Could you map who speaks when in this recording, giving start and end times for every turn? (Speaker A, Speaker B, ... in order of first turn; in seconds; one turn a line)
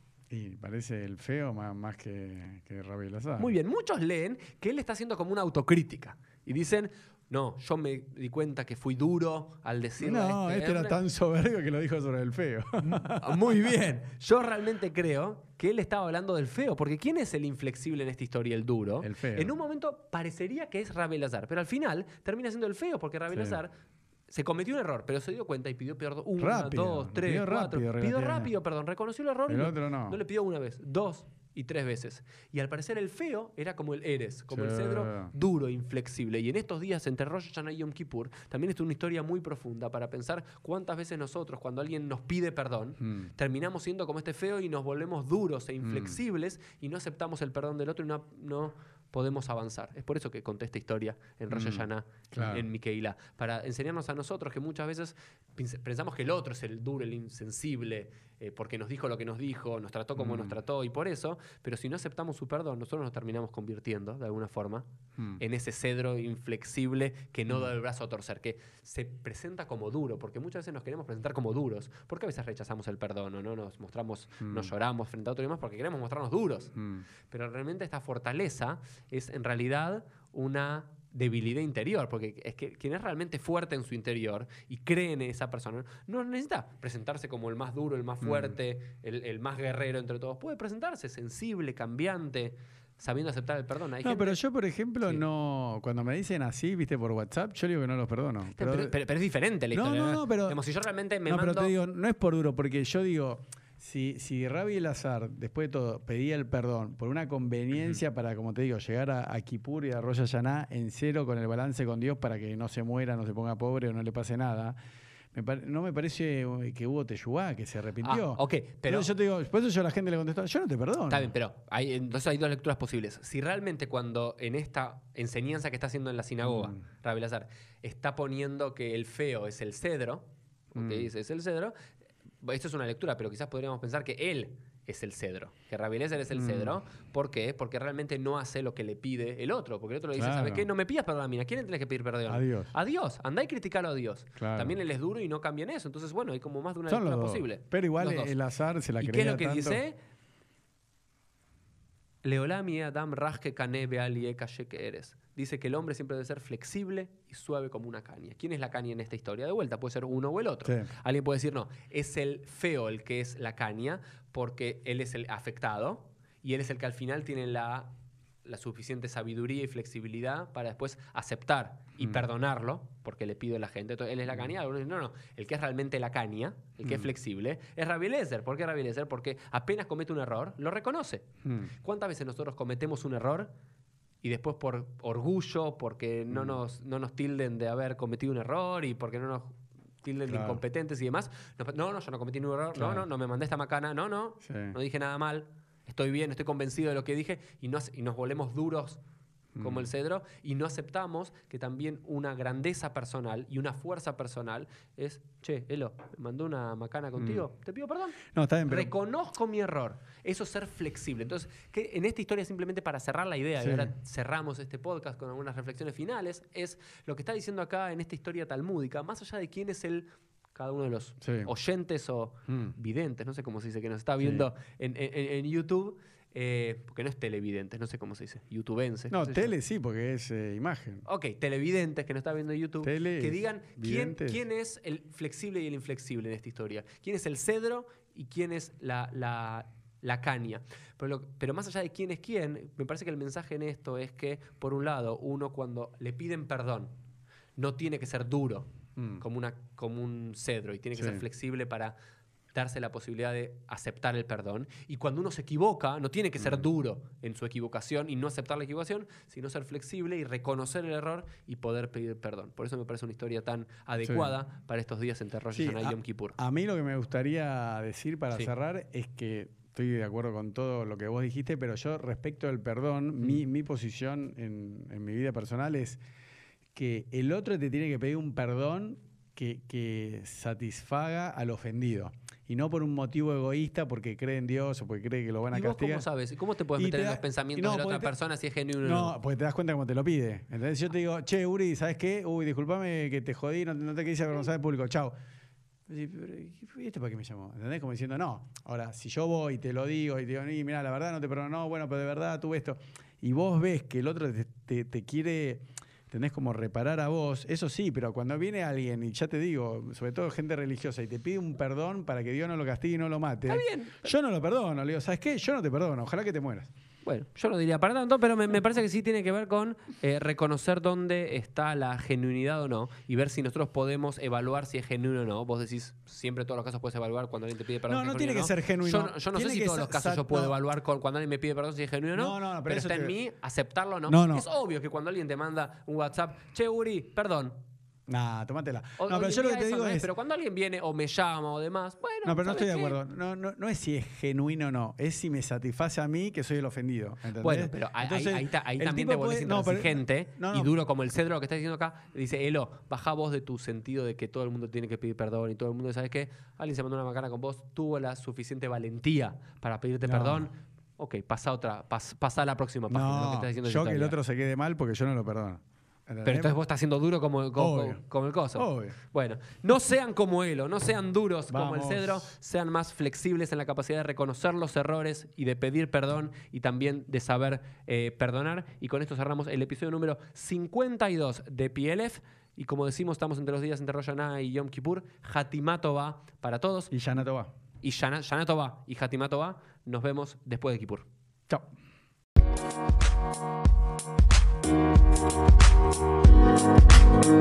Speaker A: 0.3-3.5
Speaker B: 3.4-11.0
Speaker A: 10.0-13.8
Speaker B: 12.8-23.7
Speaker A: 19.0-19.5
Speaker A: 23.3-23.6
Speaker B: 24.3-76.8
Speaker A: 26.4-28.5
Speaker A: 29.5-30.2
Speaker A: 34.5-35.3
Speaker A: 43.0-43.3
Speaker A: 45.8-46.2
Speaker A: 51.5-52.7
Speaker A: 60.2-60.6
Speaker A: 74.4-74.7
Speaker A: 76.8-77.0
Speaker B: 77.3-94.4
Speaker A: 88.2-88.6
Speaker A: 94.0-99.0
Speaker B: 98.5-101.7
Speaker A: 99.7-100.6
Speaker A: 101.3-114.8
Speaker A: 115.3-121.3
Speaker B: 118.0-119.1
Speaker B: 121.1-131.8
Speaker A: 126.4-126.8
Speaker A: 130.8-131.1
Speaker B: 132.4-148.3
Speaker A: 136.3-136.8
Speaker A: 140.1-140.7
Speaker A: 142.3-142.7
Speaker A: 144.4-144.8
Speaker A: 146.9-149.8
Speaker B: 149.0-150.0
Speaker B: 152.2-167.9
Speaker B: 168.4-183.5
Speaker A: 181.4-181.7
Speaker B: 184.2-199.0
Speaker A: 186.3-186.6
Speaker A: 190.3-190.6
Speaker A: 192.8-193.1
Speaker A: 194.4-194.8
Speaker A: 199.6-199.9
Speaker B: 199.6-229.5
Speaker A: 207.2-207.5
Speaker A: 208.3-208.9
Speaker A: 213.6-213.9
Speaker A: 221.2-221.5
Speaker A: 222.5-222.7
Speaker A: 224.2-224.5
Speaker A: 229.1-231.0
Speaker B: 231.1-246.9
Speaker A: 232.8-234.4
Speaker B: 247.6-251.9
Speaker A: 249.0-249.2
Speaker A: 250.9-251.2
Speaker B: 252.5-266.4
Speaker A: 256.4-256.7
Speaker A: 264.0-264.3
Speaker A: 265.5-276.0
Speaker A: 276.8-286.1
Speaker B: 285.5-289.1
Speaker A: 286.8-288.1
Speaker A: 288.8-295.1
Speaker A: 295.9-316.7
Speaker B: 313.5-314.1
Speaker B: 317.1-337.6
Speaker A: 327.9-330.6
Speaker A: 332.1-333.1
Speaker A: 334.1-334.5
Speaker A: 338.1-340.1
Speaker B: 339.0-343.0
Speaker A: 342.2-350.7
Speaker B: 347.4-364.2
Speaker A: 360.1-360.5
Speaker A: 362.9-366.6
Speaker B: 366.2-386.9
Speaker A: 367.6-368.0
Speaker A: 368.6-369.0
Speaker A: 371.5-372.3
Speaker A: 386.9-387.5
Speaker B: 387.8-391.1